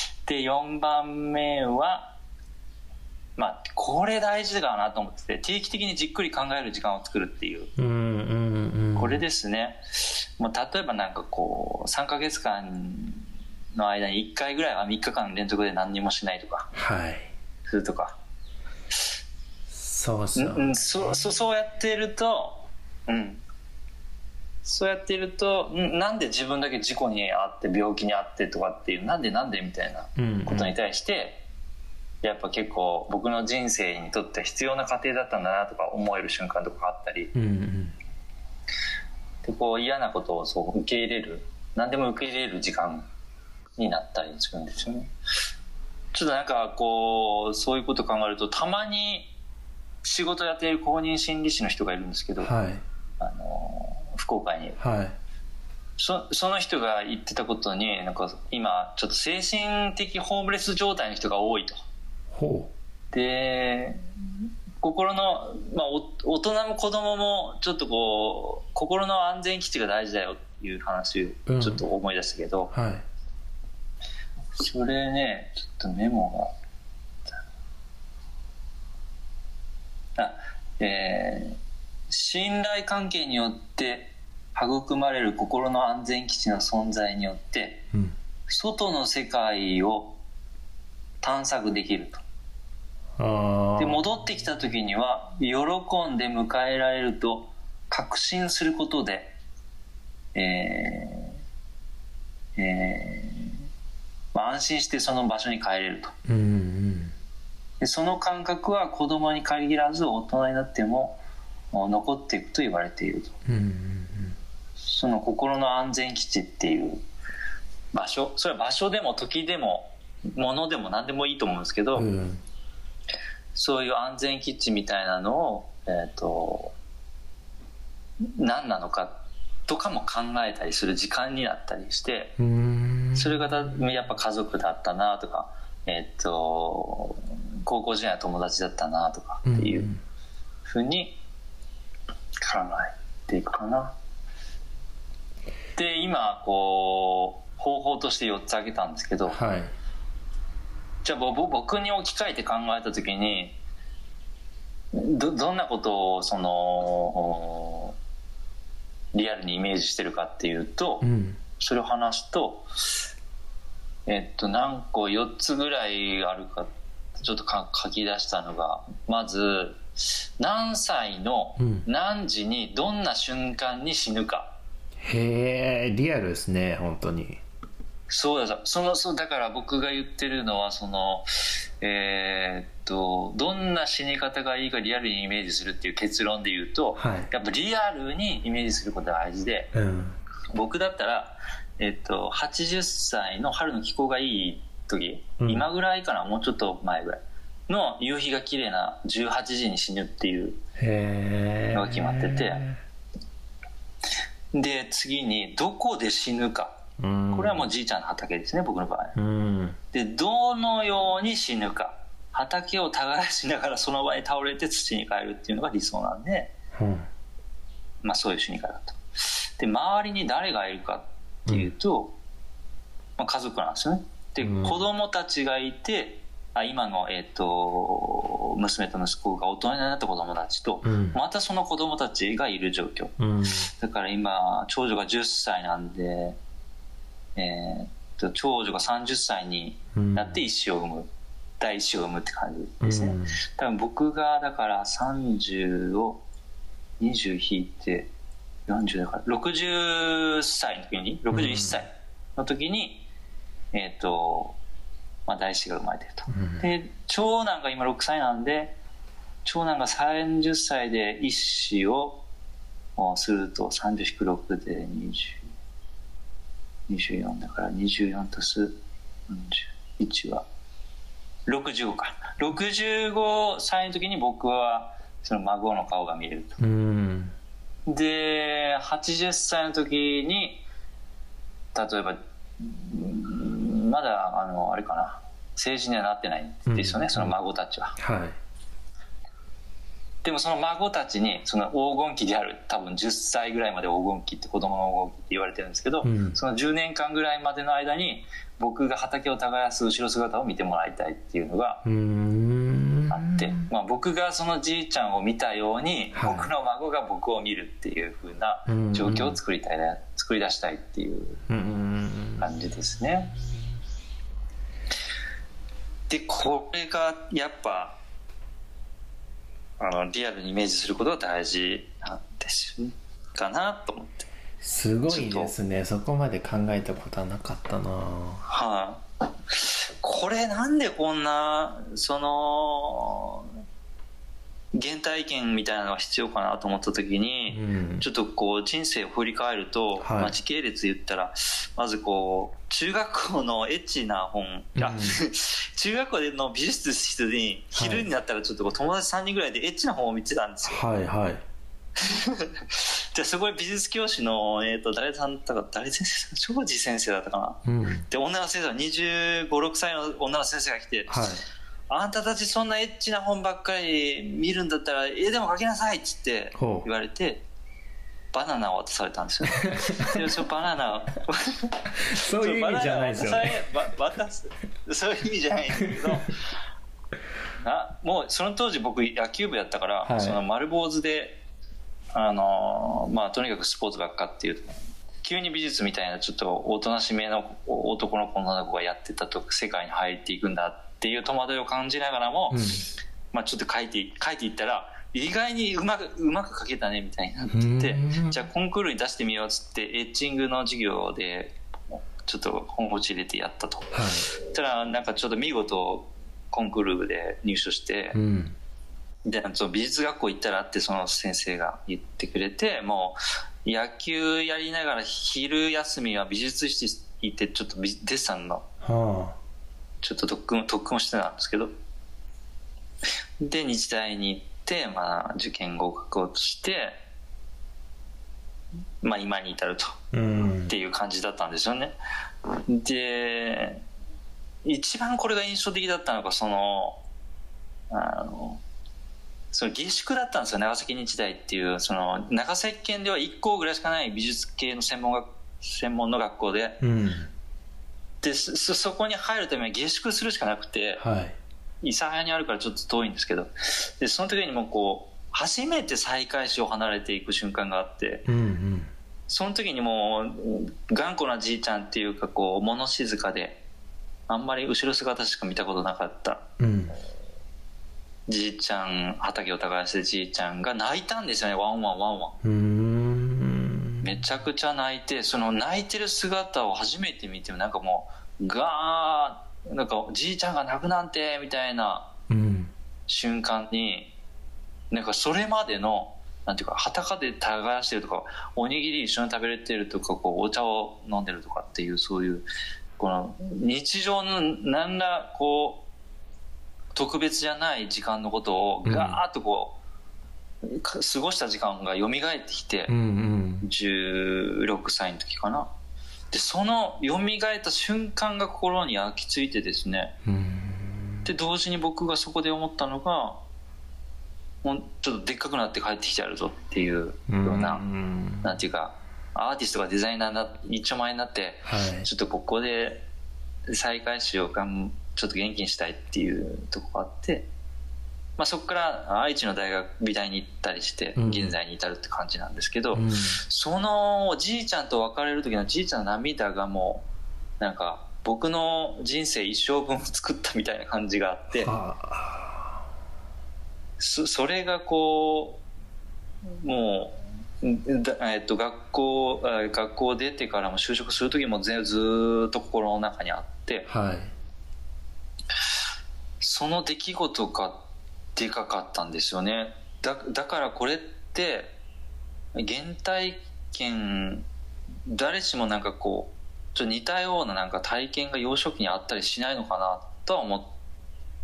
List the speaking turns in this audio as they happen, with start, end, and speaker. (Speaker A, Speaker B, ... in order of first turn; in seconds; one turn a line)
Speaker A: 0.2-2.2
Speaker A: 3.4-7.7
Speaker B: 7.8-9.2
Speaker A: 9.0-16.7
Speaker B: 16.7-17.3
Speaker A: 17.7-18.2
Speaker B: 19.7-20.7
Speaker A: 20.4-23.4
Speaker A: 24.6-31.4
Speaker B: 30.2-30.7
Speaker A: 32.2-37.3
Speaker B: 37.4-38.0
Speaker A: 39.4-43.1
Speaker A: 43.8-45.1
Speaker A: 46.1-49.3
Speaker A: 50.0-52.5
Speaker B: 52.4-52.8
Speaker A: 53.2-54.8
Speaker B: 54.8-55.2
Speaker A: 56.0-61.8
Speaker B: 62.3-62.7
Speaker A: 63.1-64.1
Speaker A: 64.8-72.7
Speaker B: 71.5-71.8
Speaker B: 72.7-73.0
Speaker A: 74.5-76.5
Speaker A: 80.2-87.9
Speaker A: 88.5-90.2
Speaker A: 91.2-92.2
Speaker B: 93.2-94.0
Speaker A: 93.8-99.3
Speaker A: 100.3-101.4
Speaker A: 102.6-103.6
Speaker A: 104.3-106.1
Speaker B: 106.3-107.1
Speaker A: 107.8-111.2
Speaker A: 111.7-113.4
Speaker B: 113.5-114.4
Speaker A: 114.8-117.0
Speaker A: 117.9-122.1
Speaker B: 122.0-122.4
Speaker A: 123.5-126.8
Speaker A: 128.2-132.4
Speaker B: 132.4-133.8
Speaker A: 133.2-139.9
Speaker B: 139.5-140.0
Speaker A: 140.7-141.2
Speaker A: 142.4-144.0
Speaker A: 145.8-149.4
Speaker B: 149.3-149.7
Speaker A: 151.0-153.6
Speaker A: 154.9-158.0
Speaker A: 159.1-162.7
Speaker B: 161.0-161.4
Speaker A: 164.1-174.6
Speaker B: 171.6-171.9
Speaker B: 175.0-177.4
Speaker A: 178.1-189.7
Speaker B: 187.0-187.3
Speaker B: 189.7-190.2
Speaker A: 190.5-200.6
Speaker B: 195.4-195.7
Speaker B: 200.8-202.8
Speaker A: 201.7-202.6
Speaker A: 204.5-206.8
Speaker B: 207.0-207.7
Speaker A: 207.3-209.2
Speaker B: 209.2-209.8
Speaker A: 209.9-216.5
Speaker B: 216.7-217.1
Speaker A: 218.0-222.2
Speaker A: 223.2-233.2
Speaker B: 224.4-224.8
Speaker B: 230.8-231.2
Speaker B: 233.2-233.7
Speaker A: 233.7-236.4
Speaker A: 237.4-246.2
Speaker B: 239.9-240.4
Speaker B: 242.8-243.4
Speaker A: 247.0-248.1
Speaker A: 248.7-253.1
Speaker B: 251.3-251.8
Speaker A: 253.7-254.6
Speaker A: 255.3-258.8
Speaker B: 256.3-256.7
Speaker A: 259.4-262.2
Speaker A: 263.0-265.5
Speaker A: 266.9-270.5
Speaker A: 271.5-276.6
Speaker B: 276.6-277.4
Speaker A: 277.9-280.6
Speaker A: 281.8-288.0
Speaker B: 286.7-287.4
Speaker B: 288.0-288.4
Speaker A: 290.2-301.8
Speaker B: 296.0-296.4
Speaker B: 301.9-303.6
Speaker A: 303.1-311.4
Speaker B: 306.1-306.5
Speaker B: 308.7-309.4
Speaker B: 311.5-312.5
Speaker A: 312.4-313.4
Speaker A: 316.1-318.0
Speaker A: 319.8-324.3
Speaker B: 324.6-328.4
Speaker A: 325.1-325.5
Speaker A: 328.5-333.5
Speaker A: 334.7-350.9
Speaker B: 337.5-338.1
Speaker B: 340.0-340.4
Speaker B: 344.8-345.2
Speaker B: 347.8-348.1
Speaker B: 350.6-351.4
Speaker A: 352.0-361.3
Speaker B: 357.6-358.1
Speaker B: 361.1-361.4
Speaker A: 361.9-367.4
Speaker B: 366.6-366.9
Speaker A: 368.3-376.4
Speaker B: 369.6-370.3
Speaker B: 372.0-373.7
Speaker A: 377.6-381.4
Speaker B: 380.0-380.4
Speaker A: 382.1-401.6
Speaker B: 392.5-392.9
Speaker B: 397.5-398.4
Speaker A: 402.2-408.2
Speaker B: 403.9-404.3
Speaker B: 408.1-408.6
Speaker A: 409.2-418.7
Speaker B: 418.8-419.4
Speaker A: 420.0-421.7
Speaker A: 423.4-427.0
Speaker A: 429.0-429.9
Speaker B: 430.1-430.8
Speaker A: 430.7-431.9
Speaker A: 432.7-433.8
Speaker A: 434.6-437.0
Speaker A: 437.9-438.6
Speaker A: 439.5-446.8
Speaker B: 446.8-447.3
Speaker A: 448.2-451.0
Speaker B: 451.0-451.4
Speaker A: 451.8-458.3
Speaker B: 458.3-458.9
Speaker A: 459.3-463.6
Speaker A: 464.3-466.5
Speaker B: 466.6-467.0
Speaker A: 468.3-472.4
Speaker B: 472.4-474.2
Speaker A: 474.0-482.1
Speaker B: 482.3-482.7
Speaker A: 483.1-484.1
Speaker A: 484.9-492.5
Speaker A: 493.0-495.9
Speaker A: 496.9-499.8
Speaker B: 498.9-499.2
Speaker A: 500.6-502.9
Speaker B: 502.9-503.7
Speaker A: 503.6-505.7
Speaker A: 506.3-510.2
Speaker B: 510.2-511.3
Speaker A: 511.2-513.4
Speaker A: 514.6-517.9
Speaker B: 517.3-518.6
Speaker A: 518.4-523.1
Speaker B: 521.7-522.1
Speaker A: 523.7-527.5
Speaker A: 528.4-537.1
Speaker B: 531.2-531.5
Speaker B: 532.9-533.4
Speaker A: 537.6-541.7
Speaker B: 541.5-542.8
Speaker A: 544.0-545.6
Speaker A: 546.5-553.9
Speaker B: 553.9-554.3
Speaker A: 556.4-557.9
Speaker A: 558.4-561.8
Speaker A: 562.5-564.5
Speaker A: 565.0-570.8